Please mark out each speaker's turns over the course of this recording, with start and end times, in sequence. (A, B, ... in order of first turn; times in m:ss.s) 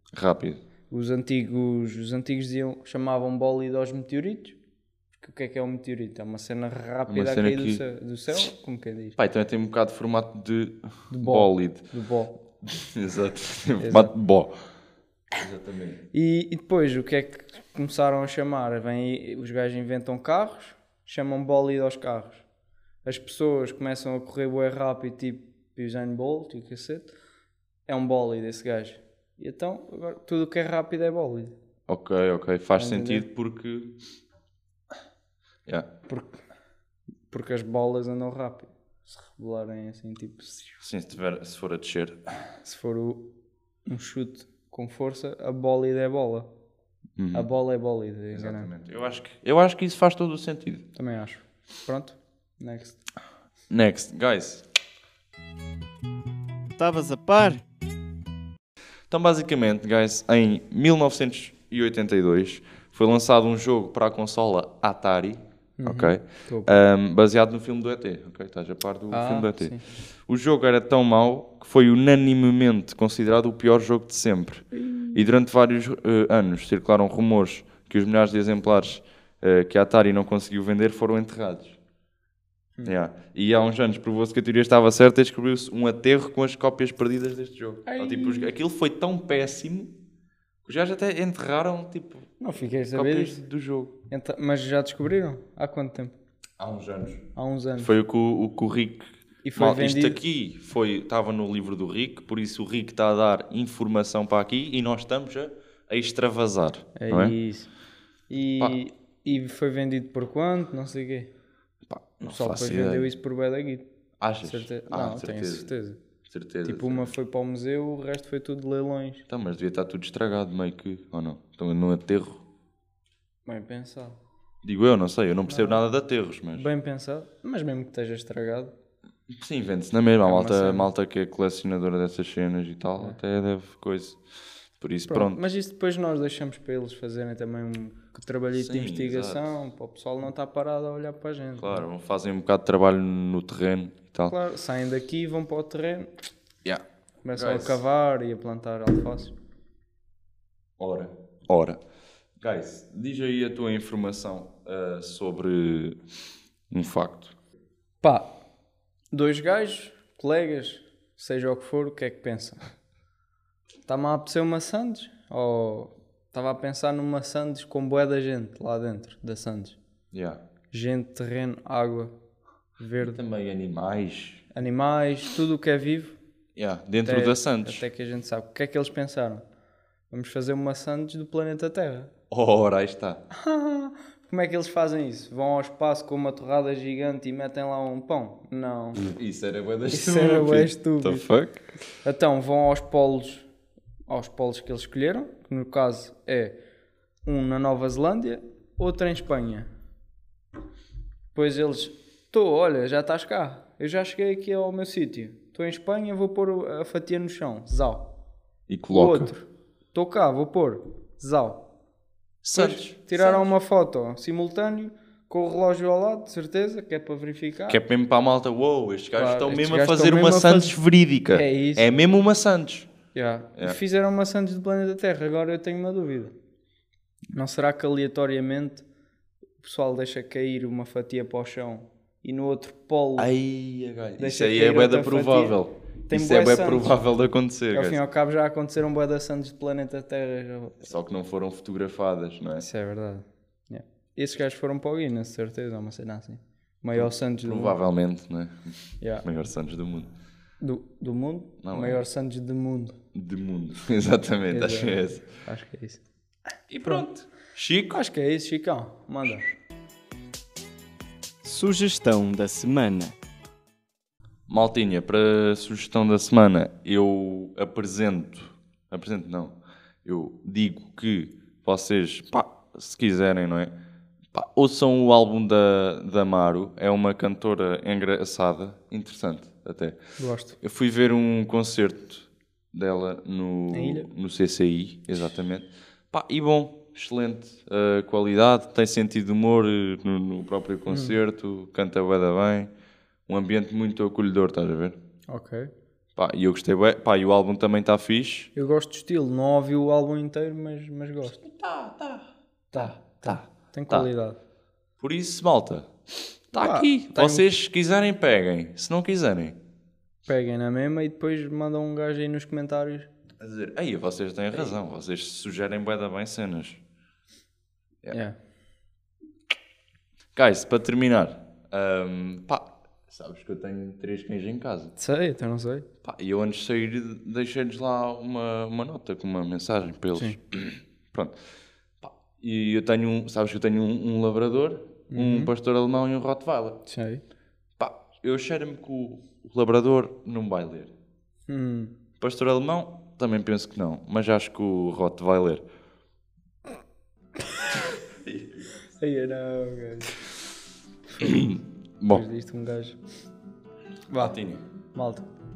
0:00.1-0:00.6 A
0:00.9-0:04.6 B
0:05.2-0:09.2 B
0:07.1-0:07.8 A
0:09.2-0:11.9 A
0:11.1-0:12.4 B
0:12.6-0:14.5 A
0:13.8-0:14.1 B
0:15.3-0:16.0 A
0:16.1-0:22.4 B
0:23.0-0:27.1 B
0:27.9-0:31.6 B
0:31.9-0:34.0 A
0:32.8-0:33.3 B
0:36.1-0:36.4 B
0:37.3-0:40.8 B
0:40.8-0:42.2 A
0:42.6-0:43.2 B
0:43.9-0:46.5 B
0:47.2-0:47.5 A
0:47.3-0:48.7 B
0:48.3-0:50.8 A
0:51.0-0:53.0 B
0:53.7-0:54.6 A
0:56.8-0:57.6 C
0:59.1-1:21.8 A
1:05.8-1:06.8 B
1:09.1-1:09.8 B
1:14.7-1:15.2 B
1:22.8-1:29.9 A
1:27.9-1:28.5 B
1:30.6-1:32.4 A
1:32.4-1:33.4 B
1:32.9-1:33.9 A
1:34.1-1:36.2 B
1:36.6-1:37.3 A
1:37.4-1:37.9 B
1:37.8-1:47.4 A
1:39.4-1:40.2 B
1:47.0-1:47.7 B
1:48.3-1:51.3 B
1:51.9-1:53.1 A
1:52.3-1:53.9 B
1:54.2-1:55.7 A
1:54.4-1:56.0 B
1:56.3-1:57.1 A
1:56.6-1:59.2 B
1:59.3-2:02.4 A
2:03.5-2:04.2 B
2:04.6-2:06.7 A
2:05.5-2:05.8 B
2:06.5-2:08.7 B
2:09.3-2:14.2 A
2:10.2-2:10.9 B
2:14.8-2:15.4 A
2:15.1-2:21.8 B
2:18.6-2:19.4 A
2:21.6-2:24.4 A
2:24.3-2:26.1 B
2:27.2-2:29.3 B
2:27.3-2:27.8 A
2:30.8-2:31.8 A
2:32.4-2:36.0 A
2:36.7-2:37.4 A
2:38.0-2:38.3 B
2:39.1-2:42.6 B
2:43.9-2:49.8 B
2:50.1-2:50.4 A
2:50.7-2:52.2 B
2:52.8-2:53.2 B
2:53.0-2:54.4 A
2:54.5-2:56.2 B
2:56.6-2:57.8 A
2:57.0-2:59.4 B
3:00.1-3:02.1 B
3:02.3-3:03.2 A
3:03.3-3:09.0 B
3:09.0-3:11.7 A
3:09.9-3:11.3 B
3:12.0-3:13.5 B
3:14.1-3:16.6 B
3:17.2-3:19.7 B
3:21.3-3:28.1 B
3:28.7-3:29.3 A
3:28.9-3:31.7 B
3:32.4-3:33.4 A
3:32.5-3:37.8 B
3:37.7-3:42.9 A
3:39.2-3:40.8 B
3:41.3-3:42.0 B
3:43.1-3:46.3 B
3:47.3-3:48.8 B
3:49.6-3:53.3 B
3:53.2-3:58.0 A
3:54.2-3:55.6 B
3:56.1-3:56.9 B
3:57.7-4:00.8 B
4:00.8-4:02.7 A
4:02.6-4:07.8 B
4:07.0-4:10.1 A
4:10.6-4:13.0 B
4:11.6-4:12.0 A
4:13.1-4:15.3 A
4:14.5-4:16.0 B
4:16.7-4:18.0 A
4:17.9-4:19.5 B
4:19.2-4:19.5 A
4:21.4-4:23.1 C
4:24.5-4:33.7 A
4:34.3-4:40.0 A
4:40.2-4:40.6 B
4:40.6-4:52.7 A
4:43.7-4:44.1 B
4:50.9-4:51.2 B
4:53.3-4:55.0 A
4:55.3-4:55.7 B
4:56.2-4:58.5 A
4:58.6-5:01.4 B
5:01.4-5:04.1 A
5:02.7-5:04.4 B
5:05.0-5:05.9 A
5:06.5-5:09.6 A
5:06.6-5:07.5 B
5:10.3-5:13.1 B
5:13.4-5:16.8 A
5:18.1-5:18.4 B
5:20.4-5:24.9 A
5:25.0-5:25.9 B
5:26.0-5:31.4 A
5:32.0-5:36.8 A
5:35.1-5:35.5 B
5:36.9-5:37.2 B
5:37.8-5:40.9 A
5:41.5-5:42.0 B
5:42.2-5:45.6 A
5:48.2-5:48.8 A
5:49.0-5:50.1 B
5:51.2-5:51.4 B
5:51.2-5:52.2 A
5:52.1-5:53.0 B
5:54.1-5:54.4 B
5:54.2-5:54.6 A
5:54.9-5:55.3 B